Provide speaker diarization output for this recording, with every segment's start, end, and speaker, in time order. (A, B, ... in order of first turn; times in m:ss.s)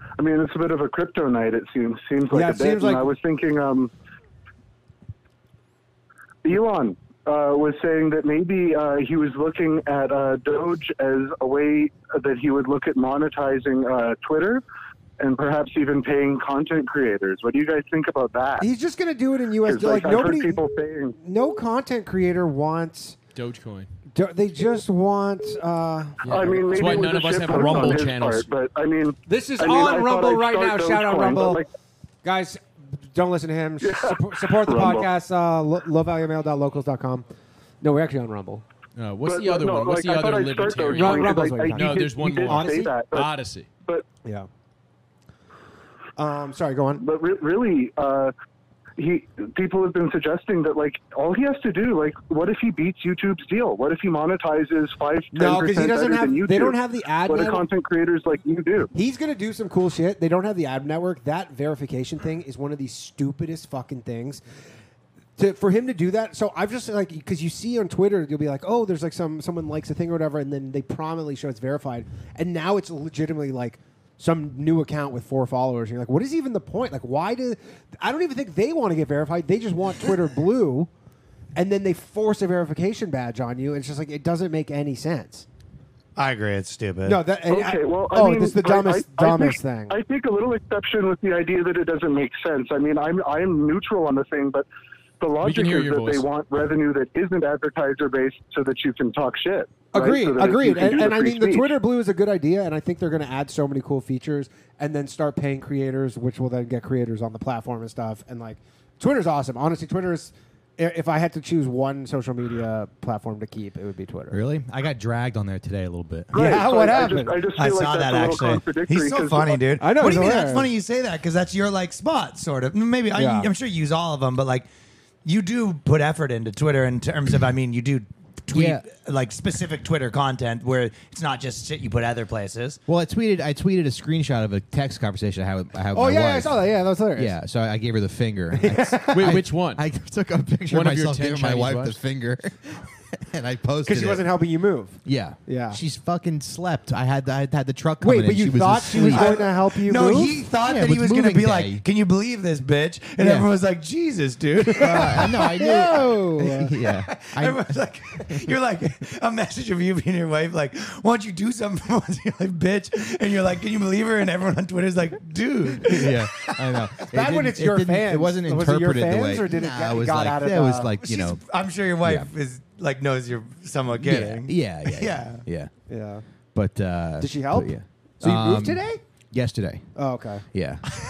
0:00.2-0:03.9 A
0:02.3-0:03.1 B
0:06.4-0:14.6 A
0:15.2-0:18.7 A
0:18.6-0:20.6 B
0:19.6-0:21.2 A
0:21.2-0:23.2 B
0:23.4-0:23.9 C
0:24.1-0:27.0 B
0:26.2-0:28.5 C
0:26.3-0:31.7 A
0:27.5-0:27.9 B
0:29.3-0:31.6 B
0:32.2-0:37.3 B
0:33.8-0:35.1 A
0:37.8-0:38.6 B
0:39.0-0:43.7 C
0:39.2-0:43.3 A
0:41.0-0:42.9 B
0:46.2-0:47.0 B
0:47.0-0:48.3 A
0:49.0-0:58.9 A
0:55.3-0:57.6 B
0:58.9-1:04.4 B
1:05.4-1:20.9 B
1:21.6-1:25.5 B
1:26.2-1:27.2 D
1:27.0-1:30.0 B
1:27.5-1:34.7 A
1:35.2-1:41.8 A
1:35.4-1:36.2 C
1:39.9-1:54.4 B
1:54.3-1:56.6 E
1:56.3-1:59.7 A
1:56.3-1:57.4 B
1:57.6-2:04.7 D
1:59.8-2:00.7 B
2:03.2-2:03.5 B
2:05.2-2:12.8 D
2:08.5-2:08.8 E
2:12.9-2:24.4 E
2:15.9-2:17.4 B
2:18.6-2:19.3 B
2:19.1-2:19.8 C
2:20.7-2:22.0 C
2:23.9-2:25.8 B
2:25.0-2:29.5 E
2:28.0-2:30.4 B
2:29.0-2:35.2 D
2:30.6-2:31.8 E
2:33.2-2:33.5 E
2:34.8-2:38.5 E
2:34.8-2:36.8 B
2:37.2-2:46.3 D
2:45.8-2:51.4 E
2:47.1-2:50.9 B
2:51.0-2:55.4 D
2:52.0-2:52.3 E
2:54.0-2:55.7 E
2:55.9-2:56.3 B
2:56.5-3:00.0 E
2:57.2-2:59.0 B
3:00.0-3:00.4 B
3:00.5-3:00.9 E